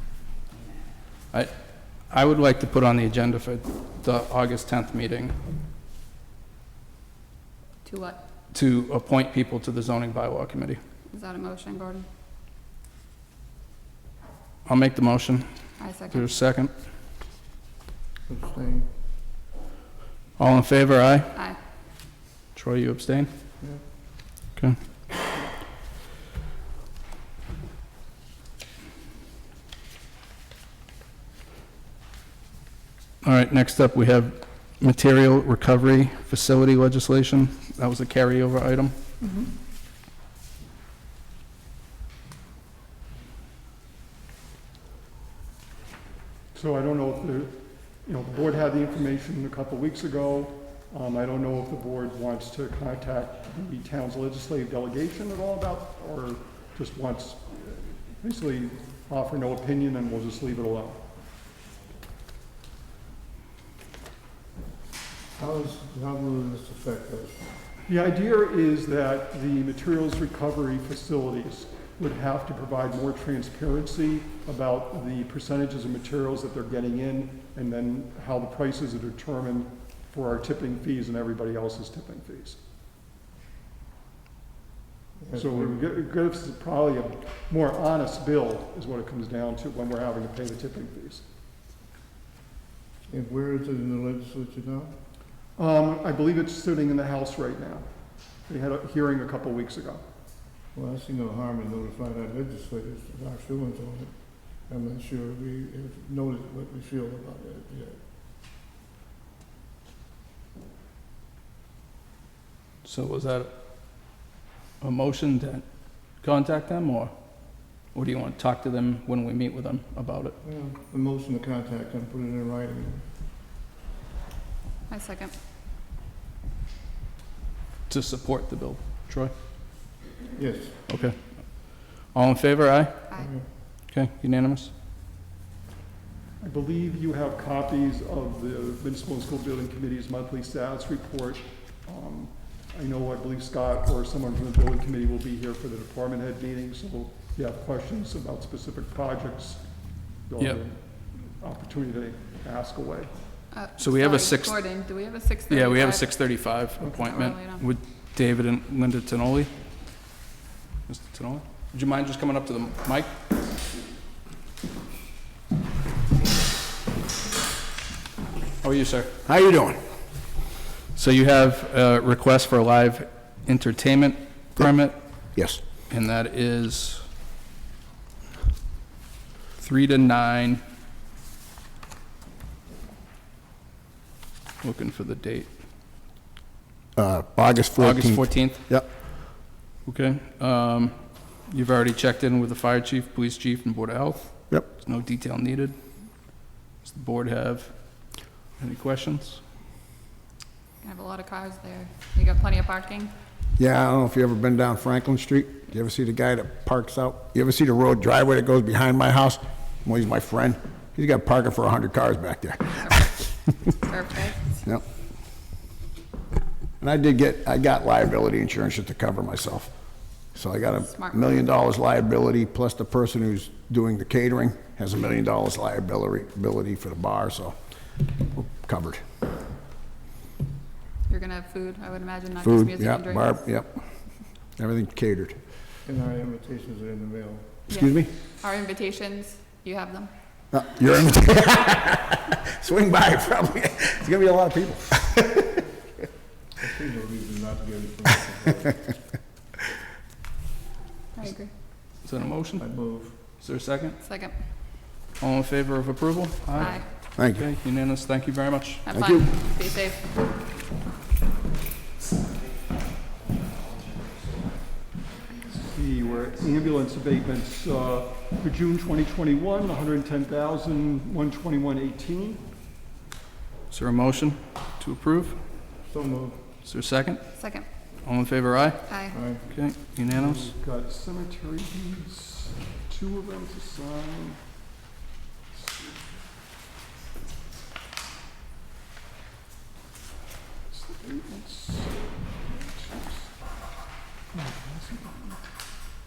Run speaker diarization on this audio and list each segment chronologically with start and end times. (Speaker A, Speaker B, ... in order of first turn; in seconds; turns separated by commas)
Speaker A: 2.1-5.3, Speaker B: 7.8-8.2, Speaker A: 8.5-10.8, Speaker B: 11.1-12.1, Speaker A: 14.7-15.5, Speaker B: 15.8-16.3, Speaker A: 16.1-16.7, Speaker C: 18.3-18.9, Speaker A: 20.4-21.3, Speaker A: 22.5-23.3, Speaker A: 33.2-38.9, Speaker D: 39.2-39.5, Speaker D: 46.5-61.0, Speaker C: 65.3-67.5, Speaker D: 67.8-82.6, Speaker C: 85.2-85.9, Speaker D: 85.3-91.2, Speaker C: 93.1-94.9, Speaker D: 95.6-97.9, Speaker D: 98.5-100.0, Speaker C: 100.7-108.0, Speaker A: 112.8-113.5, Speaker A: 114.8-120.3, Speaker C: 120.4-123.0, Speaker B: 124.9-125.3, Speaker A: 127.9-129.3, Speaker C: 130.3-130.8, Speaker A: 130.9-133.0, Speaker C: 133.1-133.4, Speaker A: 133.9-134.7, Speaker D: 136.4-149.6, Speaker D: 150.2-153.1, Speaker B: 153.5-157.7, Speaker A: 153.8-154.6, Speaker A: 155.5-159.5, Speaker A: 160.9-163.1, Speaker A: 168.6-169.1, Speaker E: 169.2-169.8, Speaker A: 170.9-175.0, Speaker E: 175.3-175.6, Speaker A: 175.9-177.1, Speaker A: 179.6-180.6, Speaker A: 184.6-185.5, Speaker E: 186.9-188.9, Speaker A: 187.8-188.6, Speaker A: 189.8-195.8, Speaker A: 196.8-197.9, Speaker A: 198.6-199.4, Speaker B: 200.8-203.1, Speaker E: 203.6-213.0, Speaker B: 212.8-214.6, Speaker E: 216.8-219.7, Speaker E: 220.3-227.6, Speaker B: 220.9-221.4, Speaker E: 228.3-229.0, Speaker B: 231.1-233.4, Speaker E: 232.4-233.8, Speaker E: 234.6-235.4, Speaker C: 235.8-237.7, Speaker B: 237.7-240.1, Speaker E: 237.7-238.1, Speaker E: 240.5-245.6, Speaker C: 246.6-248.9, Speaker B: 251.2-251.5, Speaker A: 252.0-252.6, Speaker C: 252.6-253.2, Speaker A: 253.2-254.0, Speaker B: 254.0-254.3, Speaker A: 255.2-258.8, Speaker B: 256.6-256.9, Speaker E: 257.2-257.5, Speaker B: 258.8-260.1, Speaker E: 258.9-259.3, Speaker D: 265.5-272.4, Speaker A: 273.7-275.4, Speaker C: 275.8-276.5, Speaker A: 276.6-277.2, Speaker B: 277.4-277.7, Speaker A: 278.0-278.8, Speaker B: 278.9-279.2, Speaker C: 279.1-279.5, Speaker A: 279.4-280.6, Speaker D: 280.1-284.4, Speaker D: 285.5-286.1, Speaker D: 290.7-293.3, Speaker D: 294.3-295.4